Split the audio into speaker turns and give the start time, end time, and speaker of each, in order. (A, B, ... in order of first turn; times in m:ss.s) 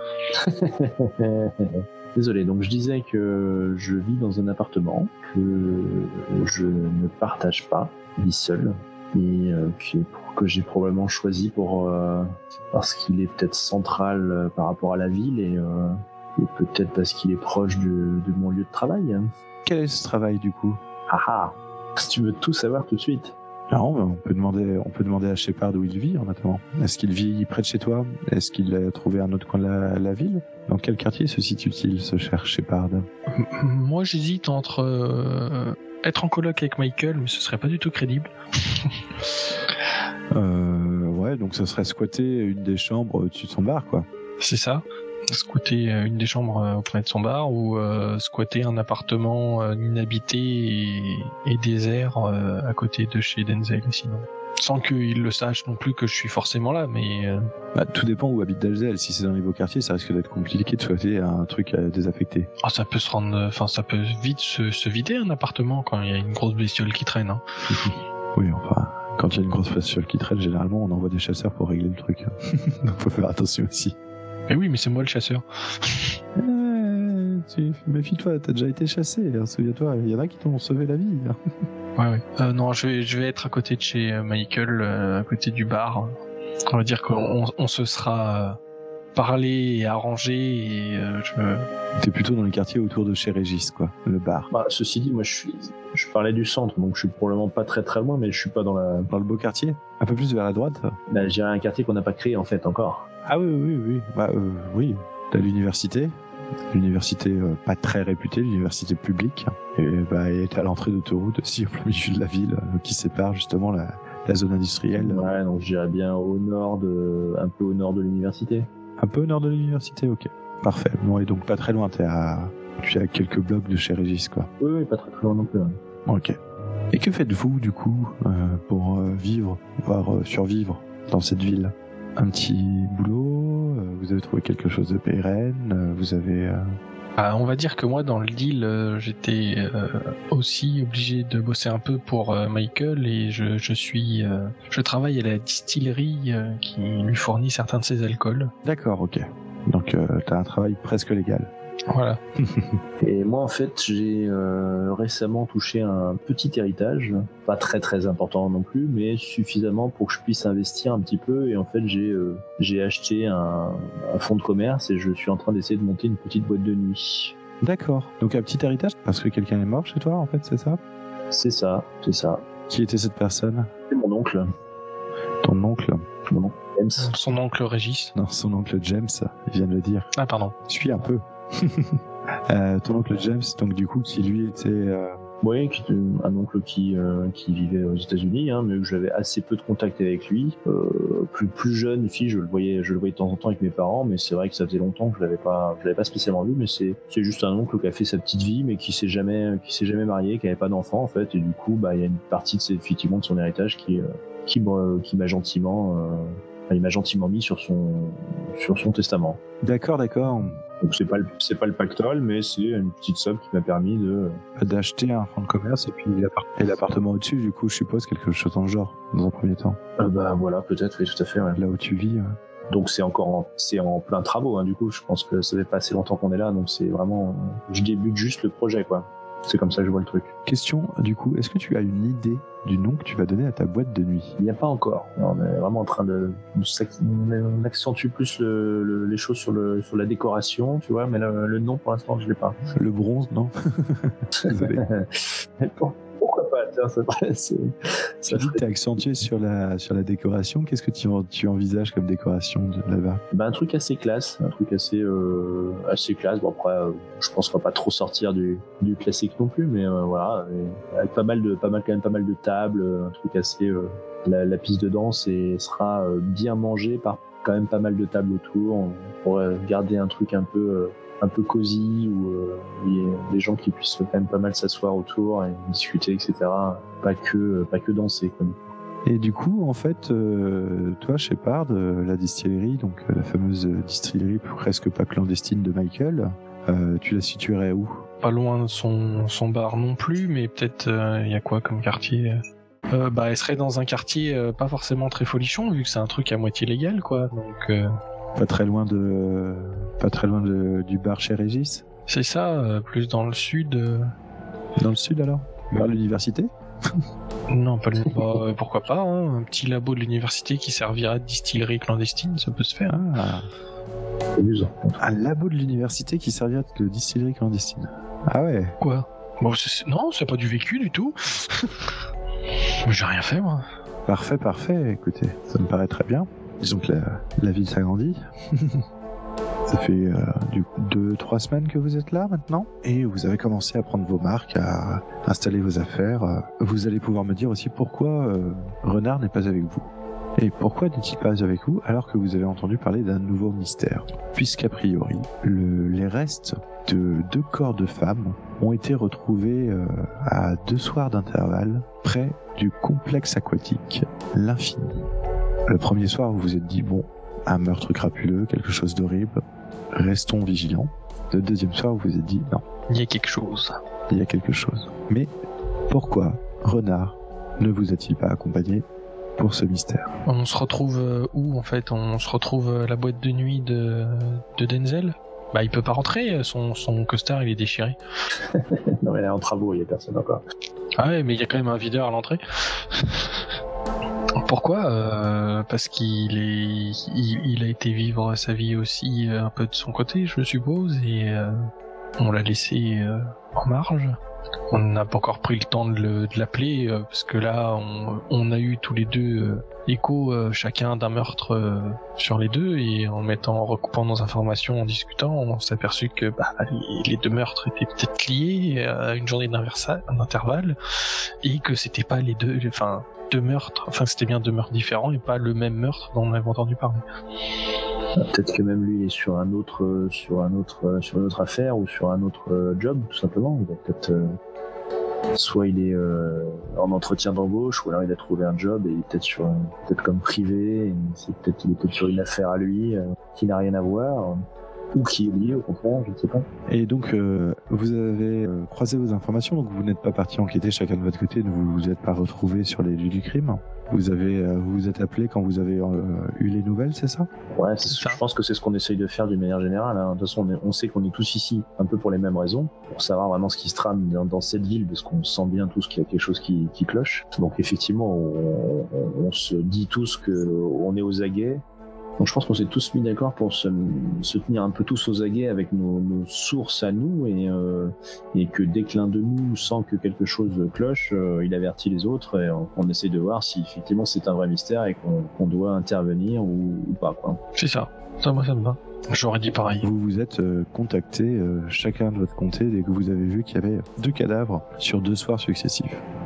0:00.4-0:19.3 A
0:19.6-0:20.8 B
0:21.1-0:23.4 A
0:23.7-0:33.1 B
0:33.3-0:39.0 C
0:40.3-0:44.1 B
0:44.4-0:57.4 C
0:57.7-1:02.5 B
1:02.6-1:07.4 C
1:07.7-1:14.0 B
1:14.5-1:16.2 C
1:16.4-1:21.4 B
1:22.0-1:26.2 C
1:26.7-1:28.6 C
1:29.2-1:31.7 C
1:32.0-1:34.5 B
1:34.5-1:39.1 A
1:39.1-1:41.0 B
1:41.1-1:43.1 A
1:43.3-1:46.1 B
1:46.7-1:55.3 B
1:55.0-1:58.7 A
1:59.0-2:04.5 B
2:04.6-2:05.8 A
2:06.1-2:06.4 B
2:06.9-2:16.8 B
2:17.2-2:28.5 C
2:28.6-2:31.5 B
2:31.9-2:32.2 C
2:32.4-2:32.7 B
2:33.0-2:47.4 A
2:47.6-2:50.8 B
2:51.3-2:52.4 A
2:52.7-2:53.7 B
2:53.9-2:54.5 A
2:55.4-2:56.0 B
2:56.3-2:57.1 A
2:57.0-2:58.1 C
2:58.2-3:00.1 B
3:00.2-3:00.5 C
3:00.7-3:05.2 B
3:05.4-3:29.4 A
3:29.6-3:30.6 B
3:30.8-3:34.4 A
3:34.6-3:39.8 B
3:40.0-3:41.6 A
3:41.6-3:42.4 B
3:42.7-3:50.3 A
3:50.5-3:54.4 B
3:54.4-4:02.6 A
4:02.8-4:04.8 B
4:04.4-4:08.6 A
4:08.3-4:13.2 B
4:13.3-4:38.6 A
4:39.1-4:48.0 B
4:48.2-4:52.4 C
4:52.9-4:57.9 C
4:58.4-5:01.8 B
5:02.1-5:04.1 C
5:04.8-5:06.5 B
5:07.5-5:13.0 C
5:12.9-5:13.5 B
5:14.4-5:15.0 A
5:15.0-5:18.8 B
5:18.8-5:21.9 C
5:22.8-5:23.6 C
5:24.1-5:28.8 B
5:29.7-5:55.1 B
5:55.7-5:59.4 B
5:59.9-6:02.6 B
6:02.9-6:03.8 C
6:04.1-6:05.3 B
6:05.9-6:08.9 B
6:09.4-6:10.1 B
6:10.3-6:18.0 C
6:18.5-6:20.4 A
6:21.0-6:23.4 C
6:24.4-6:34.2 C
6:34.7-6:50.8 C
6:51.4-6:57.0 C
6:58.2-7:04.4 A
7:05.4-7:14.4 A
7:14.9-7:16.5 A
7:16.7-7:27.3 B
7:27.5-7:41.6 A
7:27.9-7:28.2 C
7:42.2-7:57.4 A
7:57.6-7:59.9 C
7:59.8-8:06.0 B